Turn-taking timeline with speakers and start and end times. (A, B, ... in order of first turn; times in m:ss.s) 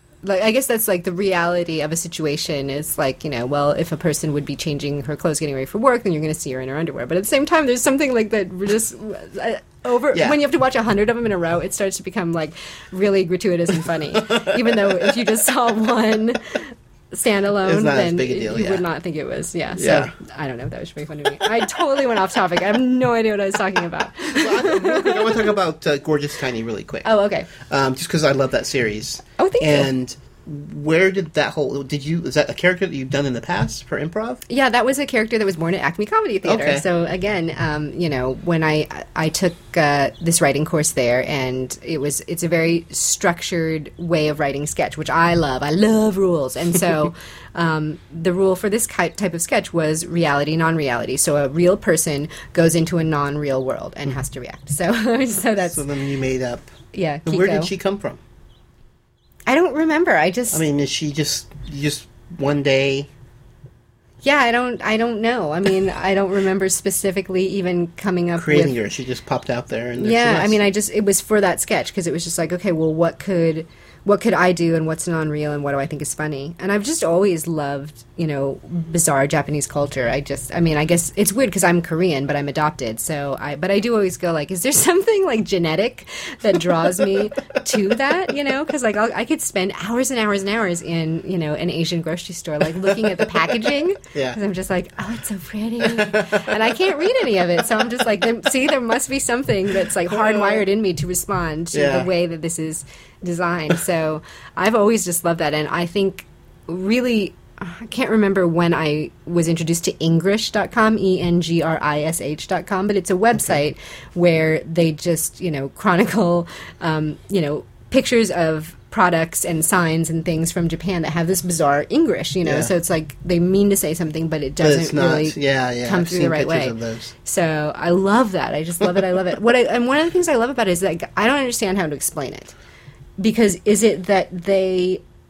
0:00.2-0:25.5 A
0:10.1-0:10.4 B
0:14.3-0:15.1 B
0:17.6-0:18.8 B
0:19.8-0:20.1 B
0:24.3-0:34.4 B
0:27.0-0:27.5 A
0:29.4-0:29.9 A
0:34.5-0:55.8 A
0:36.4-0:36.8 B
0:55.7-0:56.7 B
0:56.9-0:57.7 A
0:57.2-0:58.2 B
0:59.5-1:00.6 A
1:00.5-1:03.1 B
1:04.2-1:08.8 A
1:08.4-1:10.6 B
1:10.0-2:12.5 A
1:32.8-1:34.4 B
1:35.8-1:36.5 B
1:40.1-1:40.6 B
1:41.7-1:42.1 B
2:02.4-2:02.7 B
2:04.6-2:07.1 B
2:13.2-2:15.0 A